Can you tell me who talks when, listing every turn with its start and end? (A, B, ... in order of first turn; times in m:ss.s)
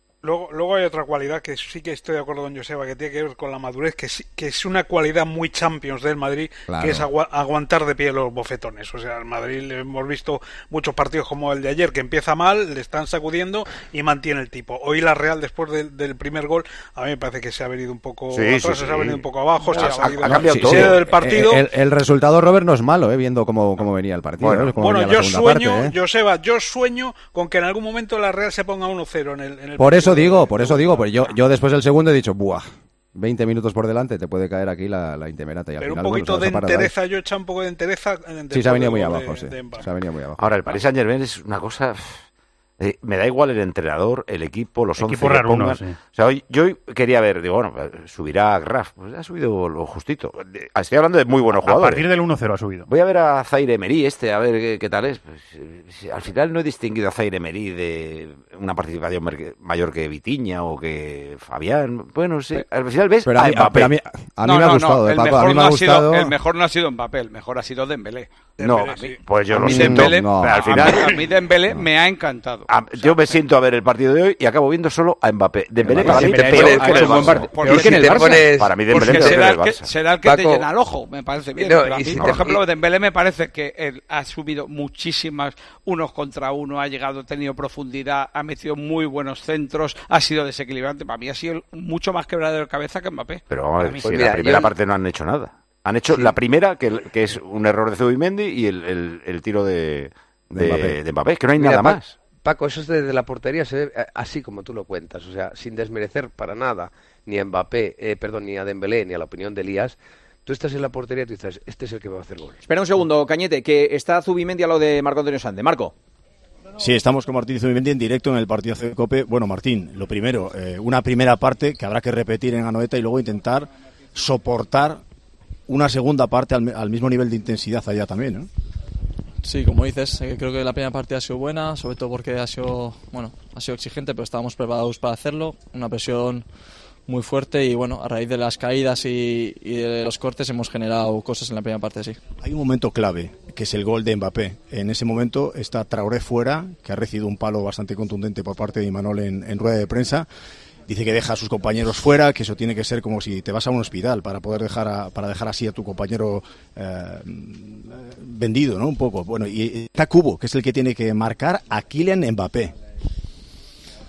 0:00.2-0:21.7 A
0:06.7-0:07.1 B
0:18.3-0:21.1 C
0:20.6-0:25.9 B
0:24.4-0:24.7 C
0:24.8-0:31.3 A
0:29.8-0:36.9 B
0:35.8-0:39.9 A
0:38.5-0:40.4 B
0:40.4-0:42.3 C
0:42.8-0:52.1 C
0:45.0-0:46.0 D
0:51.6-0:52.9 D
0:52.9-1:04.0 C
1:03.2-1:06.4 B
1:04.4-1:08.3 E
1:08.6-1:09.2 A
1:08.6-1:11.2 C
1:09.5-1:13.4 E
1:09.6-1:11.0 B
1:12.7-1:19.9 C
1:16.0-1:34.3 E
1:16.0-1:18.4 F
1:16.5-1:19.4 G
1:20.2-1:20.6 G
1:21.6-1:22.6 G
1:33.5-1:42.2 C
1:34.0-1:34.7 G
1:40.5-1:41.0 B
1:41.6-1:52.6 G
1:52.6-1:55.9 F
1:56.8-2:05.0 H
2:05.7-2:08.5 H
2:09.4-2:16.5 I
2:17.1-2:22.2 I
2:22.4-2:30.3 H
2:30.9-2:42.7 H